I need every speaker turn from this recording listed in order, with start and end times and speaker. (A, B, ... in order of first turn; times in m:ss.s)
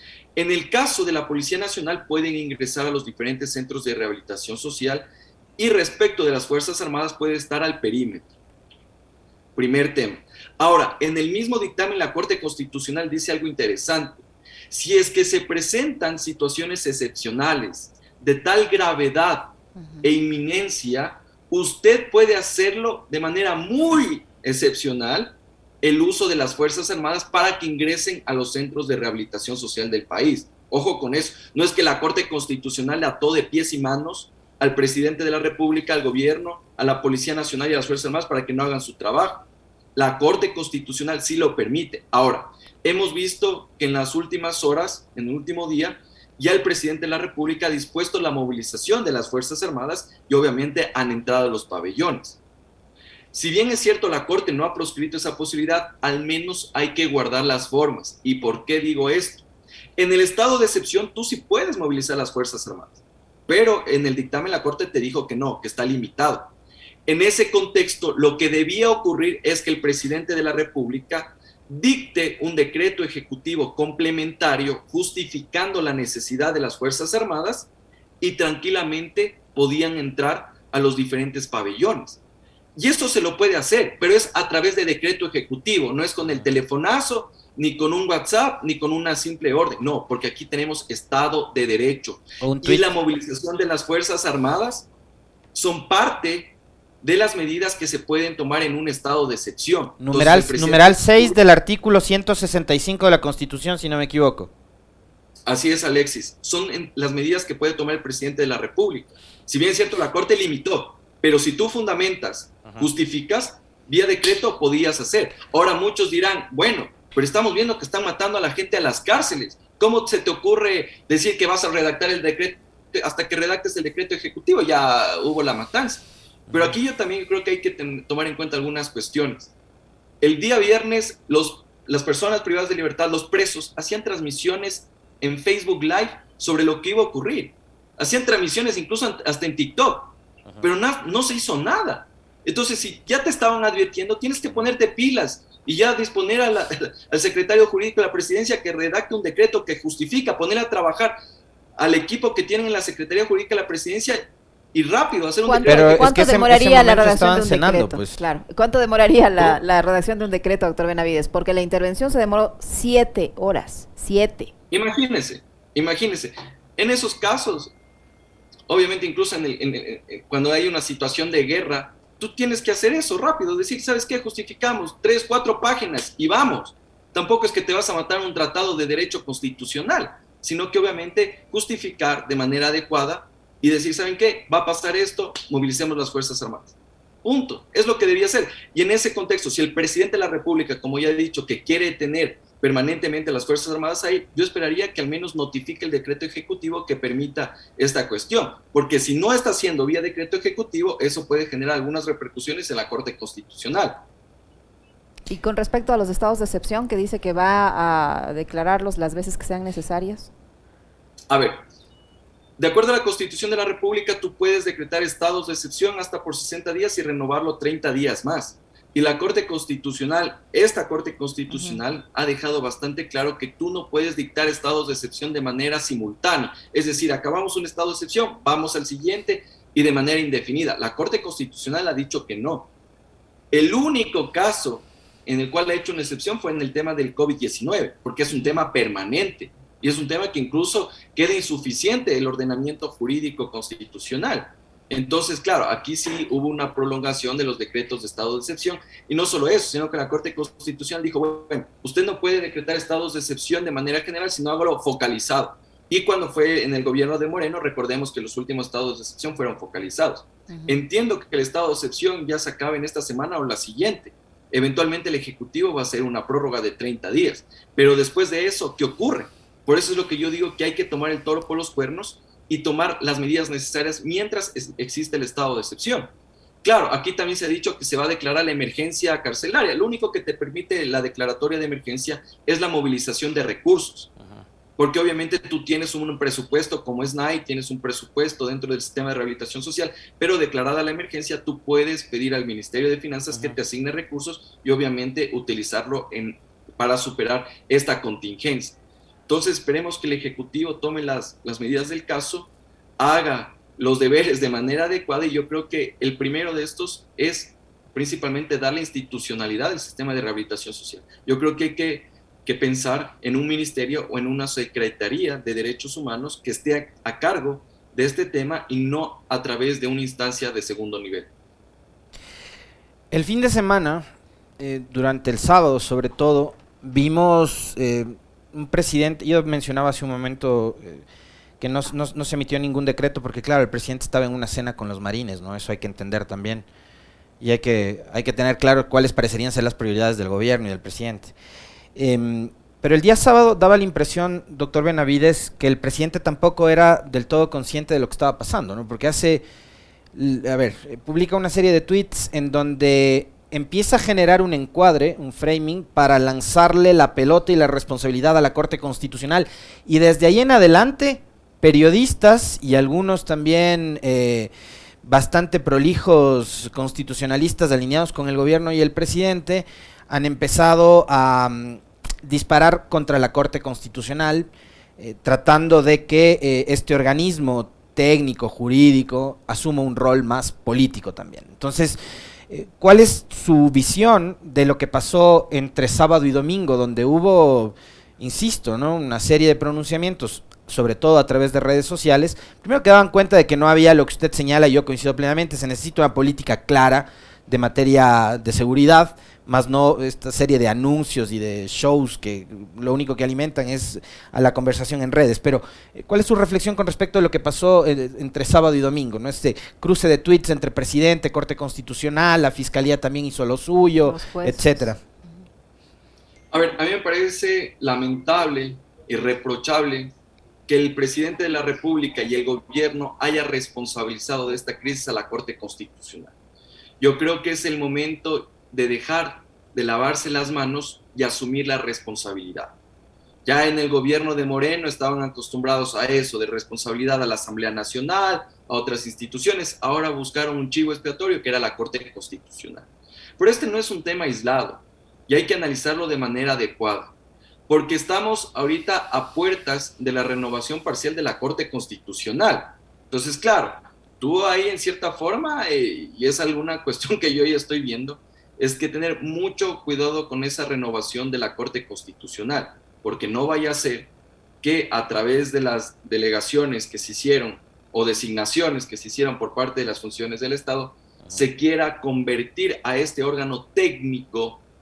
0:00.4-0:05.1 A
0:05.6-0:08.2 A
0:09.6-0:14.2 A
0:14.7-0:52.4 A
0:53.3-0:59.4 A
1:00.0-1:06.5 A
1:07.1-1:17.7 A
1:18.2-1:22.2 A
1:22.8-1:34.9 A
1:32.4-1:32.9 B
1:35.5-1:41.4 A
1:40.0-1:44.5 B
1:45.5-2:09.5 A
2:06.5-2:06.8 B
2:10.2-2:31.2 A
2:31.8-2:34.2 A
2:34.7-2:36.1 A
2:35.4-2:44.5 C
2:35.7-2:38.2 B
2:44.7-2:47.7 A
2:48.7-3:24.0 A
3:25.3-3:30.3 C
3:31.3-3:31.6 A
3:32.6-3:52.7 A
3:41.5-3:41.8 C
3:53.5-4:36.1 A
3:58.3-3:58.6 C
4:20.5-4:20.8 C
4:36.6-4:44.1 A
4:44.8-5:21.3 A
5:23.1-5:24.0 B
5:24.6-5:31.0 B
5:31.6-5:36.7 B
5:37.4-5:41.3 B
5:42.0-5:49.4 B
5:50.1-6:04.5 B
6:05.0-6:22.0 B
6:22.5-6:55.0 B
6:54.0-6:54.9 C
6:56.5-7:00.1 A
7:00.7-7:06.3 A
7:07.0-7:12.7 A
7:13.4-7:22.9 A
7:23.4-7:27.1 A
7:27.7-7:44.1 A
7:44.6-7:54.6 A